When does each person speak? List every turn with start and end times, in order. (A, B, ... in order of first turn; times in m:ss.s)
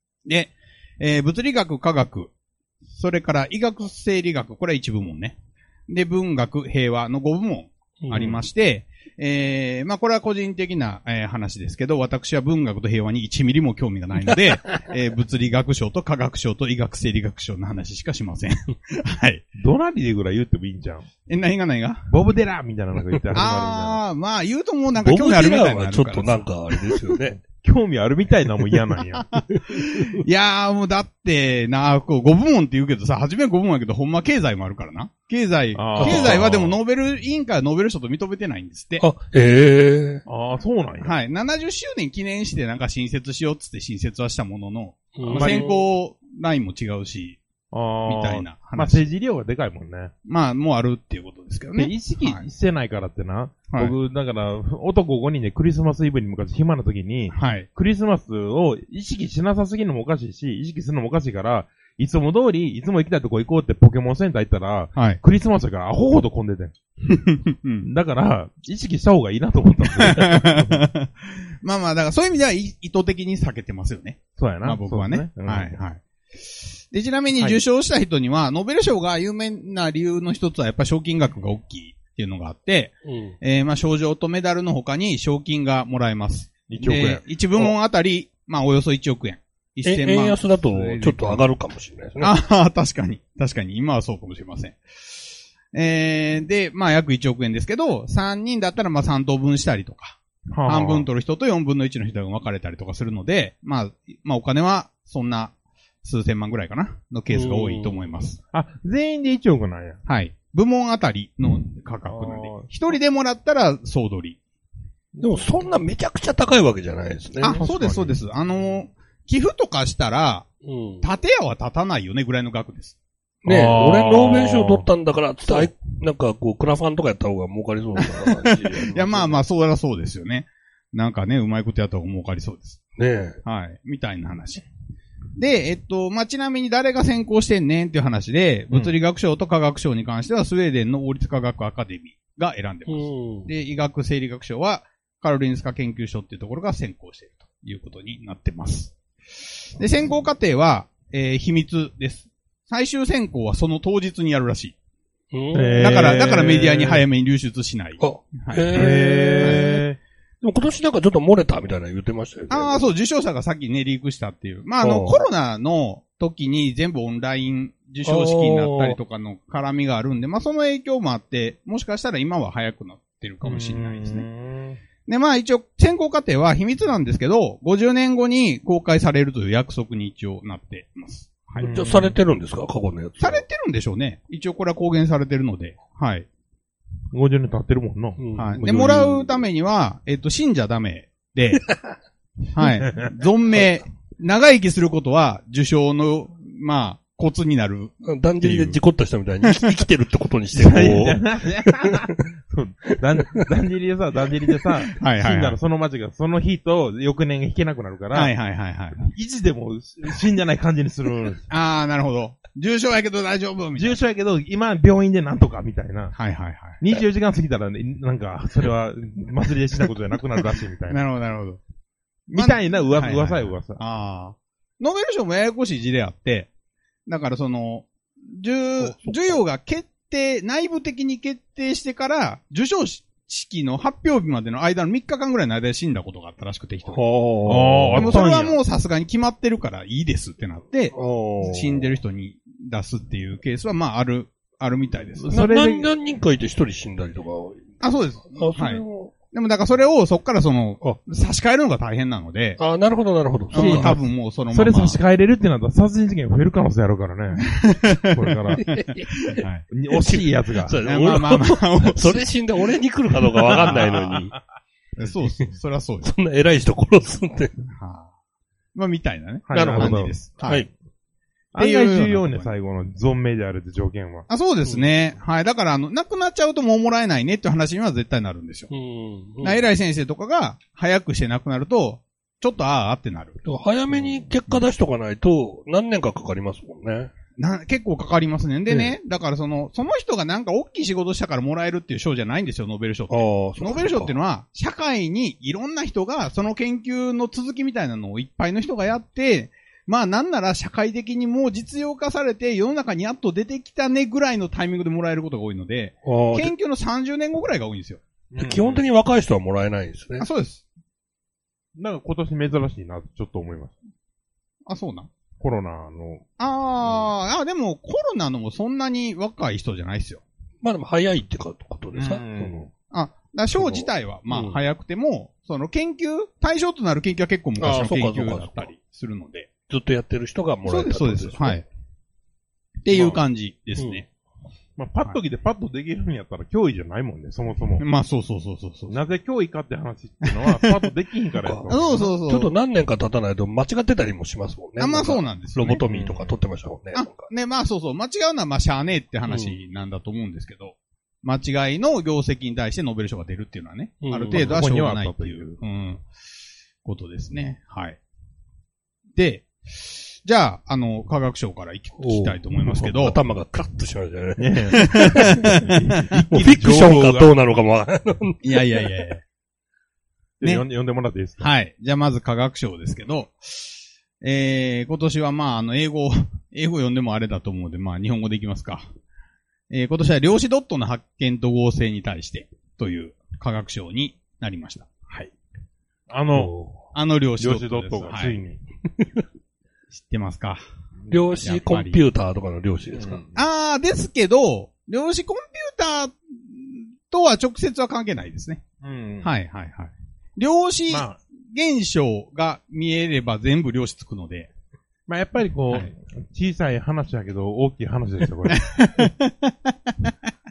0:00.2-0:02.3 A
0:02.9-0:05.4 A
0:05.9-0:19.4 A
0:08.0-0:08.4 B
0:19.5-0:21.1 C
0:21.3-0:22.1 A
0:22.1-0:24.0 C
0:23.3-0:27.0 A
0:25.0-0:27.4 B
0:27.6-0:29.3 C
0:29.3-0:39.0 A
0:35.8-0:36.8 C
0:36.0-0:36.4 B
0:39.0-0:40.2 B
0:40.2-0:41.1 C
0:41.0-0:47.4 A
0:45.2-0:45.8 B
0:45.3-0:45.7 C
0:47.7-0:50.1 C
0:48.0-0:49.0 A
0:50.2-0:52.4 A
0:51.8-1:06.7 C
0:53.7-0:53.9 A
0:57.3-0:57.7 A
1:07.1-1:07.9 A
1:07.8-1:10.9 C
1:10.0-1:16.0 A
1:14.4-1:15.8 C
1:16.9-1:31.4 A
1:17.4-1:17.6 C
1:23.0-1:23.4 B
1:26.7-1:27.7 C
1:29.8-1:32.3 B
1:32.2-1:34.8 A
1:35.7-1:48.4 A
1:40.5-1:41.1 C
1:47.3-1:48.2 B
1:48.5-1:50.0 C
1:50.0-1:54.4 A
1:52.1-1:52.7 C
1:55.2-1:55.4 C
1:55.2-1:57.6 B
1:57.4-2:00.5 A
1:57.4-1:58.2 C
2:00.6-2:01.0 B
2:01.0-2:03.0 A
2:03.4-2:09.4 B
2:03.4-2:04.9 C
2:08.0-2:12.8 A
2:13.0-2:13.4 B
2:13.4-2:14.6 A
2:15.4-2:28.9 A
2:22.9-2:23.5 B
2:29.8-2:34.8 A
2:35.3-2:36.1 B
2:35.5-2:37.0 C
2:35.8-2:39.7 A
2:38.0-2:39.8 B
2:38.7-2:40.0 C
2:40.4-2:42.8 B
2:42.5-2:54.2 A
2:44.8-2:45.2 B
2:48.0-2:49.0 B
2:53.4-2:54.8 C
2:55.0-3:01.8 A
3:01.6-3:02.2 C
3:01.6-3:03.4 B
3:03.2-3:06.3 A
3:07.1-3:09.1 C
3:08.2-3:08.8 B
3:08.4-3:11.7 A
3:12.5-3:18.8 A
3:18.0-3:22.1 B
3:20.5-3:28.3 C
3:22.9-3:23.4 B
3:25.0-3:25.6 A
3:28.1-3:29.1 A
3:29.0-3:31.5 C
3:31.5-3:34.0 A
3:33.8-3:36.1 C
3:36.1-3:36.8 A
3:36.8-3:41.0 C
3:40.9-3:41.6 A
3:42.3-3:43.8 C
3:42.3-3:46.5 A
3:47.0-3:57.0 A
3:48.8-3:49.4 B
3:56.9-3:58.2 B
3:57.4-3:58.6 C
3:57.9-4:05.3 A
4:00.9-4:01.9 B
4:05.2-4:05.9 C
4:05.3-4:09.1 B
4:07.8-4:12.6 A
4:12.6-4:14.0 B
4:13.5-4:15.0 A
4:13.5-4:18.8 C
4:17.4-4:19.6 A
4:18.5-4:19.4 B
4:19.7-4:20.8 C
4:19.9-4:24.4 B
4:20.8-4:22.3 A
4:23.5-4:23.8 A
4:23.5-4:24.2 C
4:25.0-4:26.1 A
4:26.0-4:27.5 B
4:27.7-4:28.1 A
4:28.7-4:30.7 A
4:29.5-4:30.2 C
4:29.5-4:30.7 B
4:31.5-4:34.2 C
4:31.6-4:32.5 A
4:34.3-4:38.7 A
4:38.7-4:39.7 B
4:39.4-4:43.4 A
4:43.4-4:47.1 B
4:47.4-5:08.0 A
4:53.1-4:54.1 B
5:06.0-5:06.5 B
5:08.3-5:08.8 C
5:08.4-5:10.2 B
5:10.2-5:10.6 A
5:11.8-5:13.8 C
5:14.7-5:15.1 A
5:15.4-5:16.2 C
5:16.4-5:20.2 A
5:20.6-5:22.7 B
5:22.0-5:22.2 A
5:22.1-5:22.7 C
5:22.9-5:29.5 A
5:23.6-5:24.6 B
5:27.6-5:28.7 B
5:29.7-5:31.6 B
5:30.7-5:31.7 A
5:32.8-5:34.1 A
5:32.9-5:33.2 C
5:34.8-5:37.8 C
5:37.8-5:39.0 A
5:38.9-5:42.1 C
5:40.2-5:40.8 A
5:41.4-5:47.3 B
5:41.7-5:42.5 A
5:44.8-5:45.8 A
5:45.8-5:46.3 C
5:46.9-5:56.0 A
5:49.2-5:49.6 B
5:54.0-5:54.5 B
5:54.3-5:55.6 C
5:56.8-5:58.0 A
5:59.2-6:03.2 A
6:02.0-6:05.5 B
6:04.4-6:07.3 C
6:04.7-6:06.4 A
6:06.3-6:09.0 B
6:08.4-6:09.2 A
6:10.4-6:11.5 C
6:11.4-6:13.7 A
6:14.2-6:18.8 A
6:19.7-6:25.3 A
6:26.1-6:26.5 C
6:26.3-6:26.8 B
6:26.9-6:28.4 A
6:27.4-6:28.6 C
6:29.9-6:30.6 A
6:31.1-6:33.2 B
6:31.4-6:32.0 A
6:32.9-6:33.4 C
6:33.3-6:38.6 A
6:38.8-6:39.3 C
6:39.2-6:44.5 A
6:40.9-6:41.2 C
6:45.1-6:49.0 C
6:48.5-6:50.1 A